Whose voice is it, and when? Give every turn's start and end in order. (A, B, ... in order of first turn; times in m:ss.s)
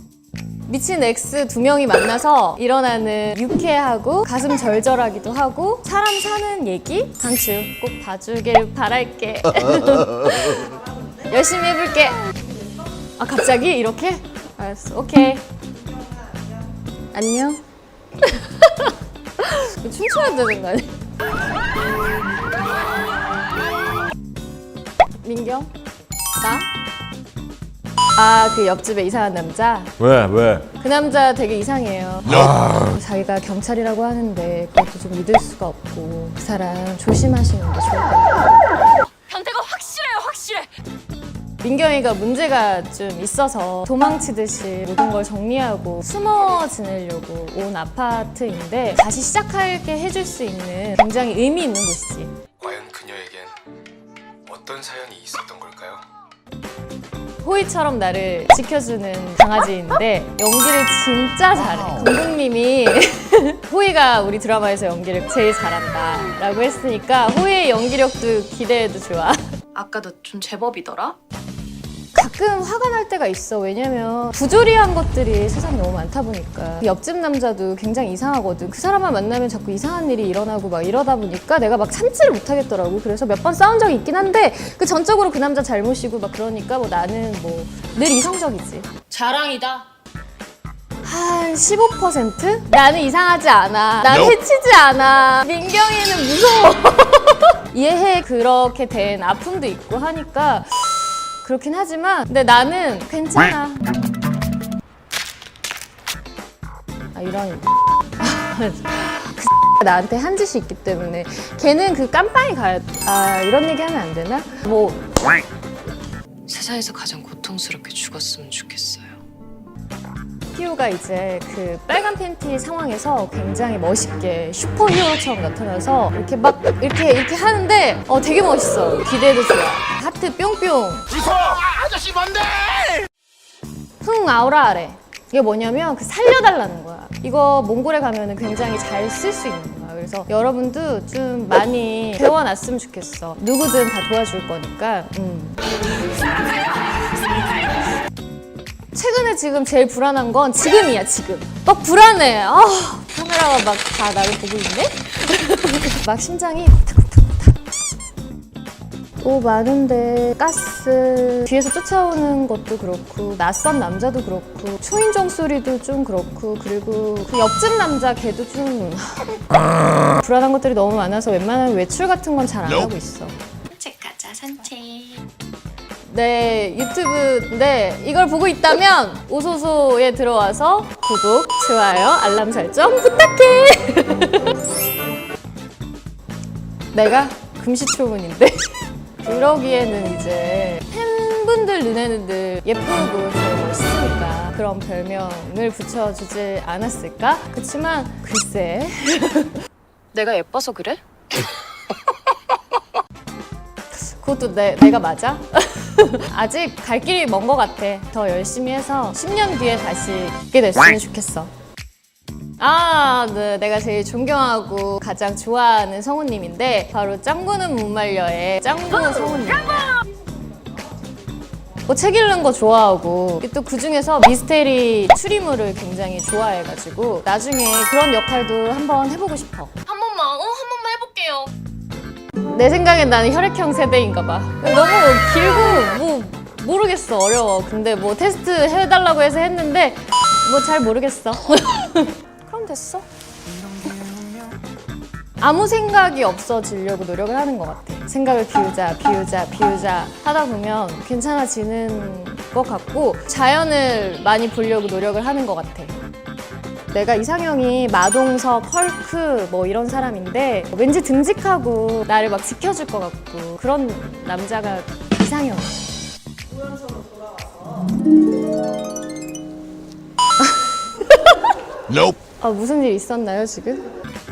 0:00.7-0:12.2 A
0:13.2-0:15.4 A
0:17.1-0:17.6 A
0:18.2-0:21.0 A
0:25.2-0:25.7 A
0:26.4-0:26.7 A
0:28.2-0:30.0 A
0:30.0-0:30.6 B
0:30.7-0:38.4 A
0:39.3-0:40.7 C
0:41.6-0:52.3 A
0:52.6-0:53.6 D
0:54.5-0:56.0 D
0:57.4-1:09.4 A
1:09.8-1:11.2 C
1:12.2-1:29.1 A
1:29.1-1:29.8 C
1:31.0-1:43.9 A
1:47.1-1:47.6 A
1:48.2-1:55.4 A
1:56.5-1:59.2 C
2:00.5-2:11.5 A
2:14.0-2:25.7 A
2:28.9-2:37.6 A
2:39.2-2:53.4 A
2:53.7-2:55.2 B
2:56.1-3:04.6 A
3:06.9-3:19.6 A
3:20.1-3:21.0 C
3:23.9-3:31.5 A
3:32.6-3:40.0 A
3:41.9-3:49.7 A
3:49.9-3:51.5 C
3:50.0-3:51.5 B
3:52.5-4:03.1 A
4:05.4-4:16.0 A
4:16.9-4:25.9 A
4:30.4-4:33.9 A